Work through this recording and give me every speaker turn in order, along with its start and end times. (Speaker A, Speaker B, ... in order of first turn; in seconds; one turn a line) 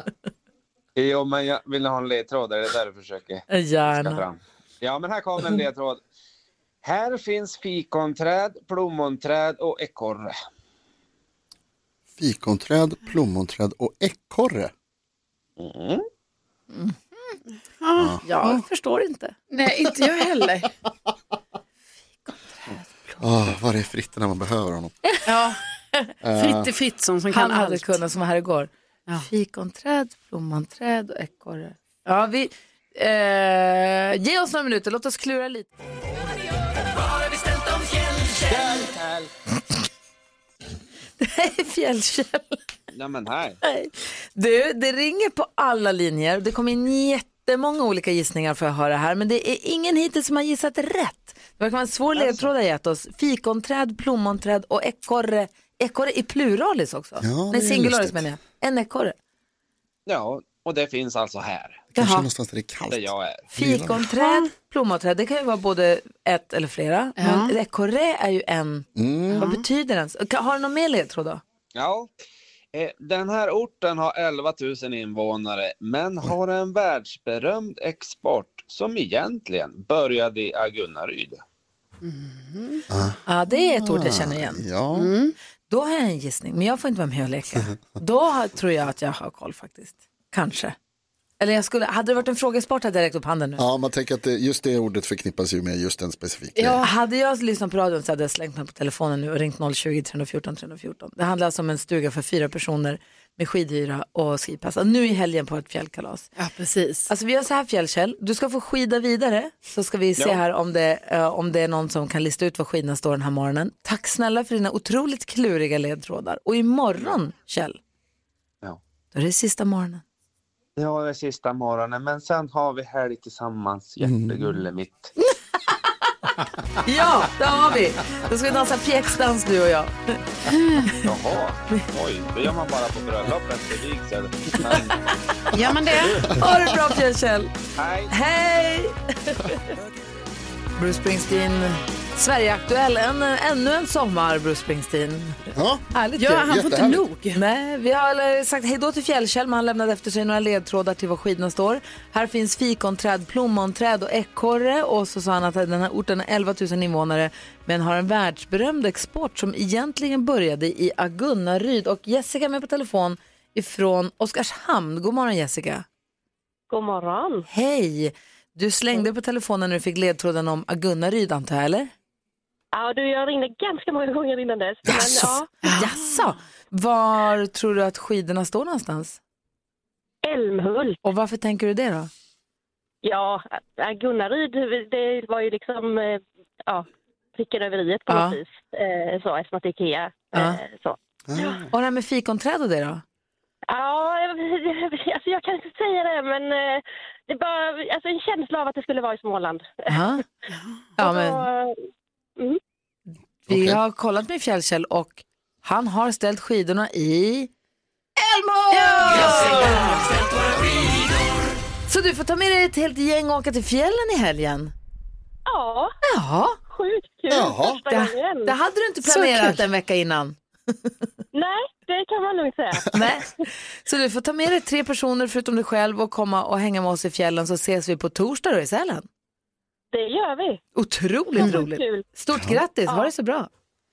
Speaker A: 0.9-6.0
Speaker B: 3.5-4.2
Speaker A: 6.8-10.3
Speaker C: 12.2-14.7
Speaker A: 15.6-16.0
Speaker B: 16.7-17.0
Speaker D: 17.8-18.6
Speaker B: 18.2-19.3
Speaker D: 19.5-20.7
Speaker B: 22.2-23.2
Speaker C: 23.2-24.9
Speaker D: 25.2-25.6
Speaker C: 26.2-26.7
Speaker D: 26.4-28.0
Speaker B: 27.3-28.7
Speaker B: 29.2-35.7
Speaker A: 38.3-39.3
Speaker B: 41.2-42.6
Speaker A: 42.9-43.6
Speaker B: 43.6-59.1
Speaker A: 52.2-52.5
Speaker C: 57.2-58.2
Speaker A: 60.1-61.9
Speaker B: 61.9-62.3
Speaker C: 61.9-64.0
Speaker A: 62.9-63.5
Speaker B: 63.5-71.4
Speaker D: 67.2-67.5
Speaker C: 69.0-69.5
Speaker D: 69.4-69.6
Speaker A: 71.8-72.1
Speaker A: 72.7-81.4
Speaker D: 82.0-82.8
Speaker C: 82.9-83.2
Speaker B: 83.3-84.6
Speaker C: 83.8-85.1
Speaker D: 84.9-85.3
Speaker B: 85.7-90.8
Speaker B: 91.4-93.6
Speaker C: 93.6-96.8
Speaker D: 96.5-96.9
Speaker B: 96.8-106.3
Speaker D: 106.4-107.1
Speaker B: 107.1-117.8
Speaker B: 119.1-120.0
Speaker A: 120.8-125.1
Speaker C: 124.0-124.5
Speaker B: 126.8-131.0
Speaker D: 130.5-130.9
Speaker A: 131.0-135.0
Speaker D: 135.5-136.2
Speaker A: 136.0-136.3
Speaker B: 136.3-137.5
Speaker A: 137.8-138.1
Speaker B: 138.1-139.6
Speaker B: 140.8-146.6
Speaker C: 145.5-145.8
Speaker D: 146.2-147.4
Speaker C: 146.4-147.0
Speaker B: 147.3-165.8
Speaker E: 166.7-167.4
Speaker B: 167.5-171.9
Speaker E: 172.7-175.5
Speaker C: 174.8-175.3
Speaker B: 174.9-179.2
Speaker D: 175.6-175.9
Speaker E: 180.2-181.0
Speaker B: 181.0-182.1
Speaker E: 183.0-191.7
Speaker B: 188.1-188.4
Speaker B: 190.3-190.6
Speaker C: 191.3-191.7
Speaker B: 191.7-193.0
Speaker E: 193.7-200.2
Speaker B: 199.9-200.2
Speaker B: 201.0-201.5
Speaker E: 201.0-201.8
Speaker B: 203.4-207.5
Speaker C: 203.5-203.8
Speaker B: 208.2-210.0
Speaker D: 208.7-210.0
Speaker B: 211.9-214.7
Speaker E: 215.4-215.9
Speaker B: 216.0-216.6
Speaker E: 216.7-218.6
Speaker C: 217.3-217.8
Speaker B: 217.9-220.9
Speaker D: 219.1-219.6
Speaker E: 221.3-223.4
Speaker B: 222.9-229.1
Speaker E: 229.9-230.6
Speaker B: 230.8-233.5
Speaker E: 231.4-232.0
Speaker C: 232.3-232.6